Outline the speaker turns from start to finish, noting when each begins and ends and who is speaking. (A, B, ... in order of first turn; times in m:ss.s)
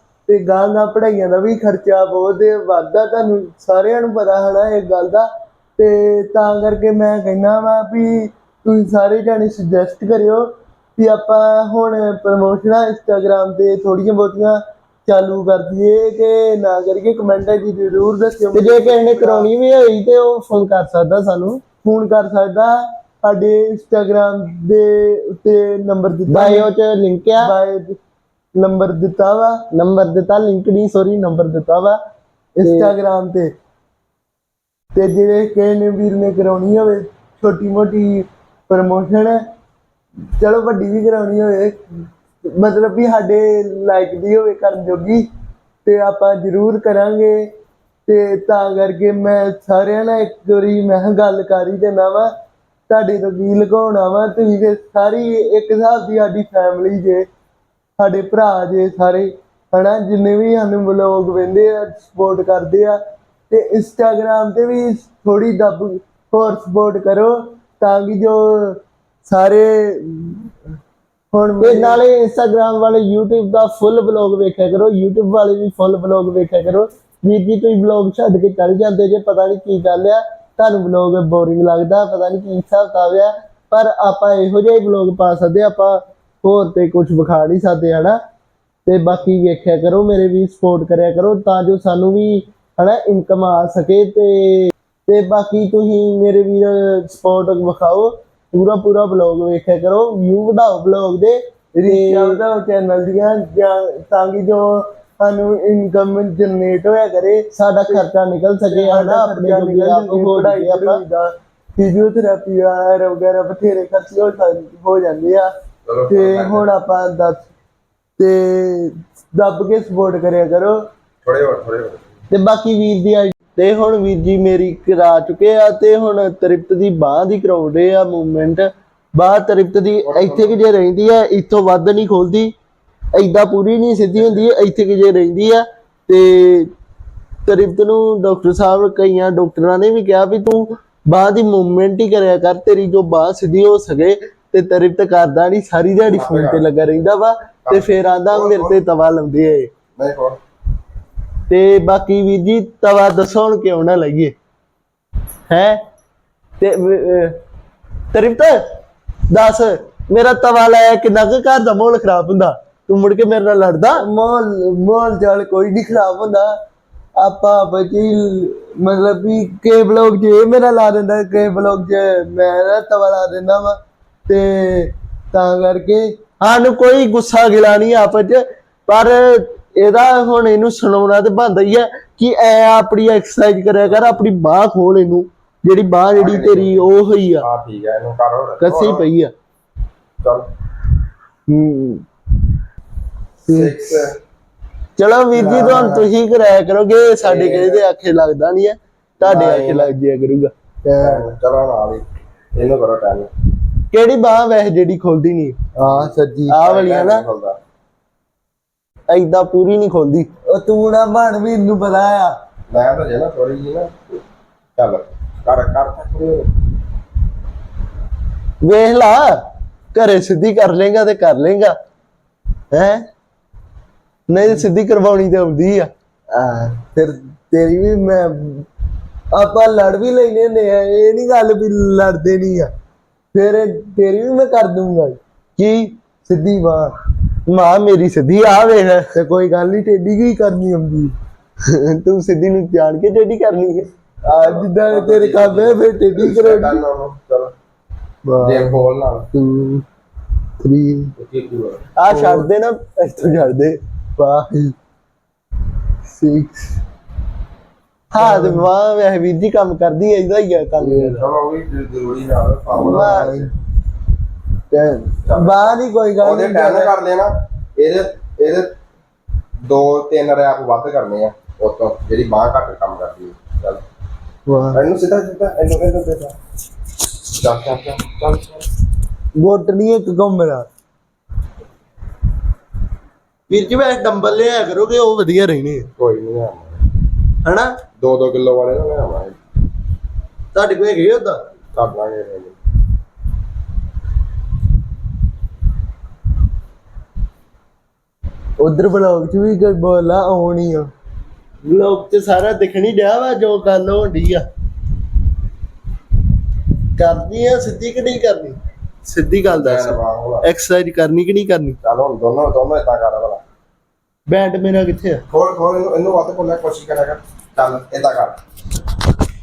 0:00.3-0:19.5 A
0:18.5-0:21.6 B
0:21.8-0:26.7 A
0:26.3-0:27.5 B
0:27.4-0:28.0 A
0:28.6-0:29.6 A
0:29.7-0:32.0 B
0:32.6-0:33.5 A
0:32.6-0:32.9 B
0:34.9-0:39.4 A
0:40.4-0:45.3 A
0:45.8-0:47.5 A
0:48.1-0:52.3 A
0:52.9-0:57.3 A
0:58.0-1:03.0 A
1:03.5-1:10.5 A
1:11.3-1:12.0 A
1:11.6-1:28.2 B
1:28.9-1:42.4 B
1:41.8-1:48.1 A
1:47.5-1:51.0 B
1:48.6-1:55.5 A
1:55.8-1:56.7 C
1:56.1-1:57.5 A
1:58.2-2:00.9 A
2:01.2-2:02.0 C
2:02.3-2:12.5 B
2:10.0-2:10.6 C
2:13.2-2:16.7 B
2:17.5-2:29.7 B
2:26.0-2:26.6 C
2:27.7-2:28.8 C
2:30.0-2:30.4 C
2:31.5-2:34.3 B
2:35.5-2:35.8 B
2:36.6-2:37.4 B
2:38.1-2:38.6 B
2:39.3-2:44.0 B
2:44.0-2:46.5 A
2:47.2-2:56.1 A
2:56.4-3:07.5 B
3:03.9-3:04.2 C
3:06.1-3:09.1 C
3:08.6-3:09.3 B
3:10.2-3:10.5 C
3:11.5-3:12.0 A
3:13.5-3:14.2 C
3:13.5-3:13.7 A
3:15.0-3:20.5 B
3:15.3-3:16.1 A
3:15.4-3:15.9 C
3:17.2-3:17.8 C
3:19.2-3:19.9 C
3:20.9-3:21.2 A
3:21.0-3:23.3 C
3:23.9-3:25.6 B
3:25.8-3:26.6 A
3:25.8-3:27.6 C
3:26.5-3:27.2 B
3:29.1-3:30.3 B
3:30.5-3:32.3 A
3:32.7-3:34.2 C
3:34.8-3:36.5 C
3:38.6-3:39.4 B
3:39.9-3:41.8 B
3:42.7-3:43.0 B
3:44.3-3:45.9 B
3:46.3-3:48.7 A
3:49.3-3:52.7 A
3:53.3-3:55.6 A
3:55.6-3:55.8 B
3:56.2-3:56.9 A
3:57.5-3:59.1 B
3:59.1-4:01.2 A
4:01.7-4:03.9 B
4:04.3-4:06.8 A
4:04.3-4:07.5 C
4:06.2-4:06.7 B
4:08.3-4:08.8 A
4:08.4-4:09.3 C
4:09.4-4:09.8 B
4:10.6-4:11.1 A
4:11.2-4:11.9 C
4:12.0-4:13.8 B
4:12.1-4:12.5 A
4:14.2-4:14.8 A
4:16.2-4:16.7 A
4:18.1-4:21.2 B
4:18.2-4:18.7 A
4:20.8-4:23.5 C
4:22.8-4:23.5 A
4:22.9-4:23.3 B
4:24.7-4:26.9 A
4:25.2-4:28.8 C
4:29.7-4:33.8 C
4:34.5-4:34.8 A
4:34.7-4:36.4 C
4:37.3-4:38.7 C
4:39.4-4:40.7 A
4:43.5-4:45.9 B
4:46.0-4:46.8 C
4:47.4-4:47.8 B
4:48.0-4:49.4 C
4:50.5-4:51.4 B
4:51.7-4:52.6 C
4:58.6-5:00.9 A
5:01.6-5:04.4 B
5:07.0-5:11.8 B
5:09.5-5:10.5 C
5:11.8-5:13.4 C
5:14.3-5:15.2 B
5:15.3-5:18.4 C